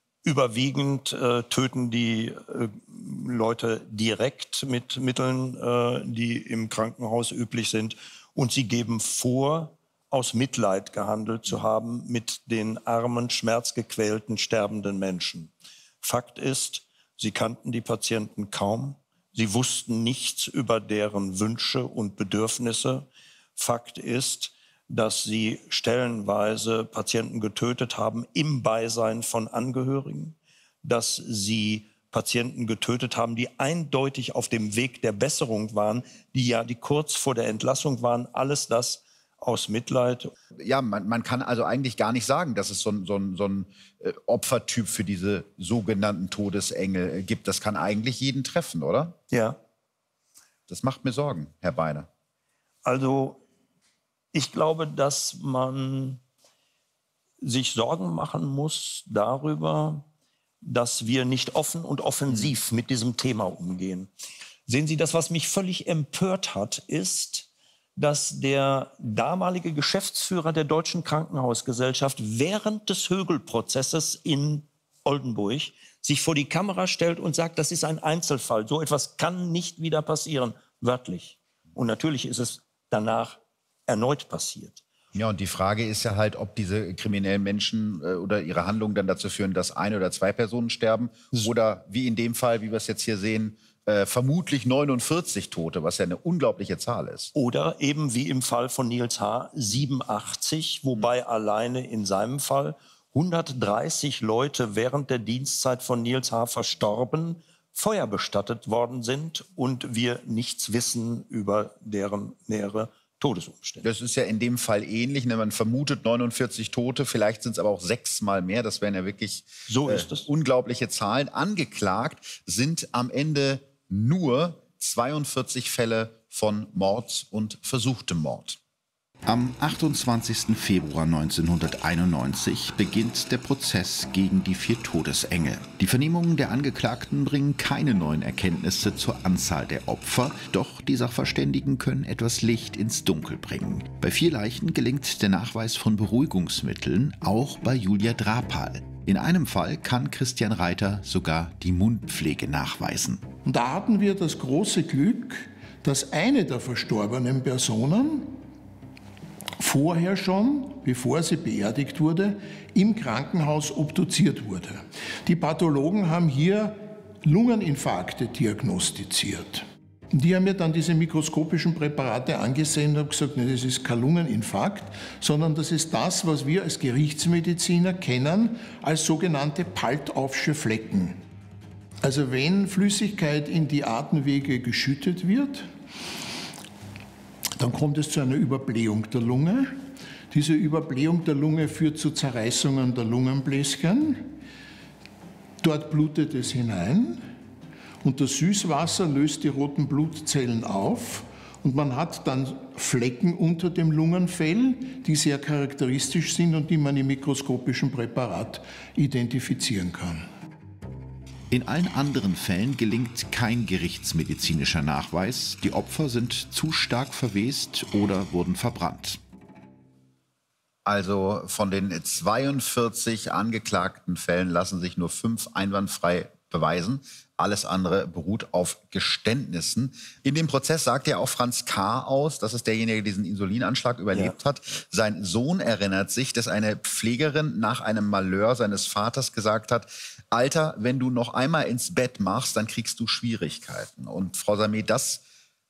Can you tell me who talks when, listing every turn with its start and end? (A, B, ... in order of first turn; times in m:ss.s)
0:00.2-0:15.5 A
0:16.0-0:40.3 A
0:40.6-0:49.2 B
0:49.3-0:49.6 A
0:50.7-0:52.1 B
0:52.8-0:53.4 A
0:54.3-0:56.2 A
0:57.4-1:00.1 A
1:00.6-1:04.1 A
1:04.7-1:24.8 A
1:25.1-1:37.3 B
1:37.3-1:53.8 A
1:53.8-2:08.6 B
1:59.7-2:00.3 A
2:09.2-2:33.3 C
2:33.4-2:38.4 D
2:39.6-3:01.2 D
3:02.0-3:05.7 D
3:07.6-3:09.8 D
3:10.3-3:14.4 D
3:15.6-3:17.2 D
3:18.0-3:30.2 D
3:31.5-3:39.2 C
3:40.9-4:05.2 B
3:54.1-3:54.4 A